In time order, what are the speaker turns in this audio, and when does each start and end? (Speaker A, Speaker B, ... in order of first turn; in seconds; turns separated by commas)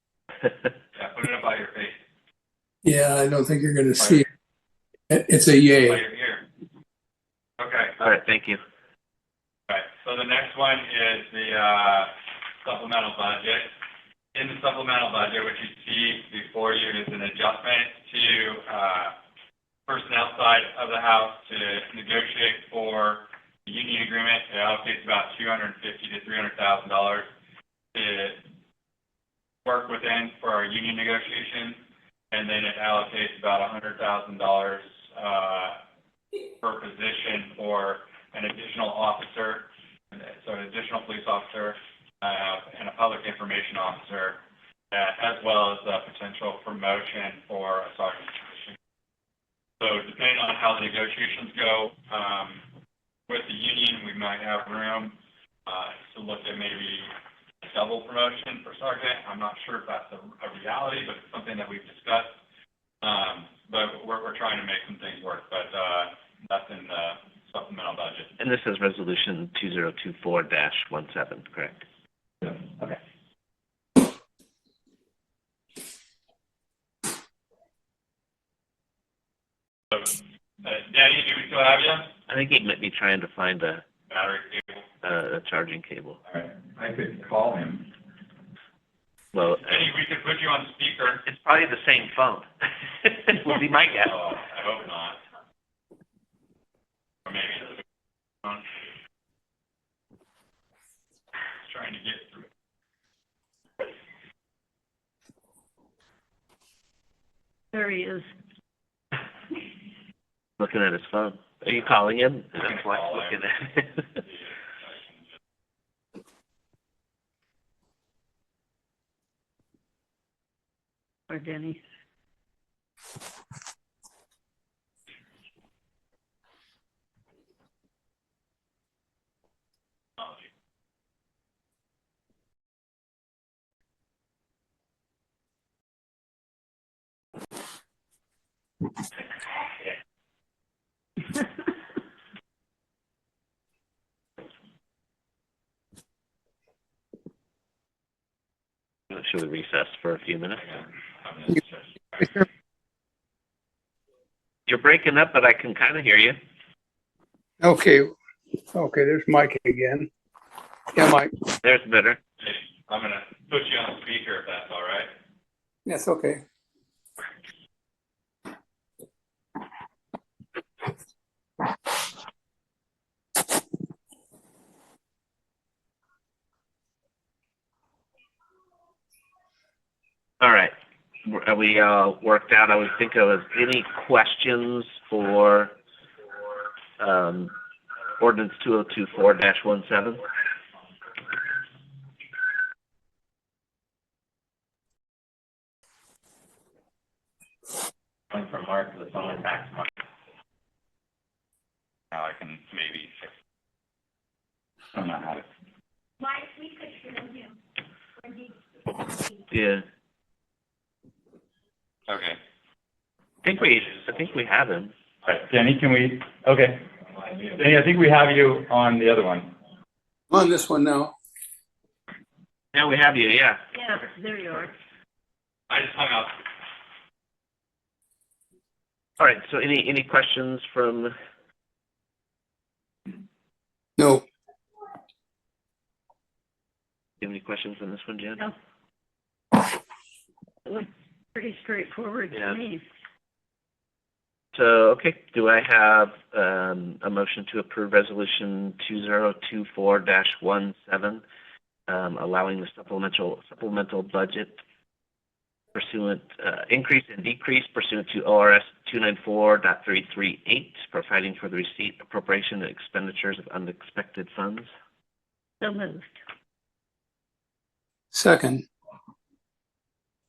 Speaker A: 0.9-2.0, Speaker B: 2.8-4.2, Speaker B: 5.1-6.0, Speaker A: 5.8-6.4, Speaker A: 7.6-8.0, Speaker C: 8.0-8.6, Speaker A: 9.7-13.7, Speaker A: 14.3-19.2, Speaker A: 19.9-27.3, Speaker A: 27.9-28.4, Speaker A: 29.6-31.8, Speaker A: 32.3-35.8, Speaker A: 36.6-44.4, Speaker A: 44.9-48.8, Speaker A: 49.8-52.6, Speaker A: 53.3-62.4, Speaker A: 63.0-68.3, Speaker C: 68.4-71.8, Speaker A: 72.4-73.0, Speaker A: 79.9-82.1, Speaker C: 82.3-83.8, Speaker A: 84.1-84.8, Speaker C: 85.0-86.2, Speaker A: 86.3-87.9, Speaker C: 89.3-89.8, Speaker A: 89.6-91.2, Speaker C: 91.2-94.2, Speaker A: 93.9-95.2, Speaker A: 97.3-97.8, Speaker A: 98.4-98.7, Speaker A: 101.6-102.5, Speaker D: 107.7-108.3, Speaker C: 110.6-114.2, Speaker A: 112.6-113.4, Speaker A: 114.2-115.2, Speaker D: 121.3-121.8, Speaker C: 149.1-150.8, Speaker A: 150.6-152.5, Speaker C: 154.7-156.4, Speaker B: 157.6-158.2, Speaker B: 158.7-160.1, Speaker B: 160.9-161.3, Speaker C: 161.6-162.2, Speaker A: 162.4-165.1, Speaker B: 165.9-166.4, Speaker C: 180.4-180.7, Speaker C: 181.2-185.8, Speaker C: 187.0-187.5, Speaker C: 188.2-190.2, Speaker A: 198.3-199.9, Speaker A: 202.1-203.3, Speaker A: 204.9-205.4, Speaker D: 206.8-207.5, Speaker C: 209.5-209.8, Speaker A: 212.1-212.4, Speaker C: 213.4-214.9, Speaker A: 215.2-219.5, Speaker B: 220.3-221.1, Speaker C: 222.7-223.6, Speaker D: 223.7-224.7, Speaker A: 225.7-226.4, Speaker C: 229.2-231.1, Speaker B: 234.0-234.2, Speaker C: 237.2-238.5, Speaker D: 240.7-242.8, Speaker C: 244.5-251.2, Speaker C: 251.9-254.6, Speaker C: 255.7-264.7, Speaker D: 265.6-266.2, Speaker B: 268.1-268.7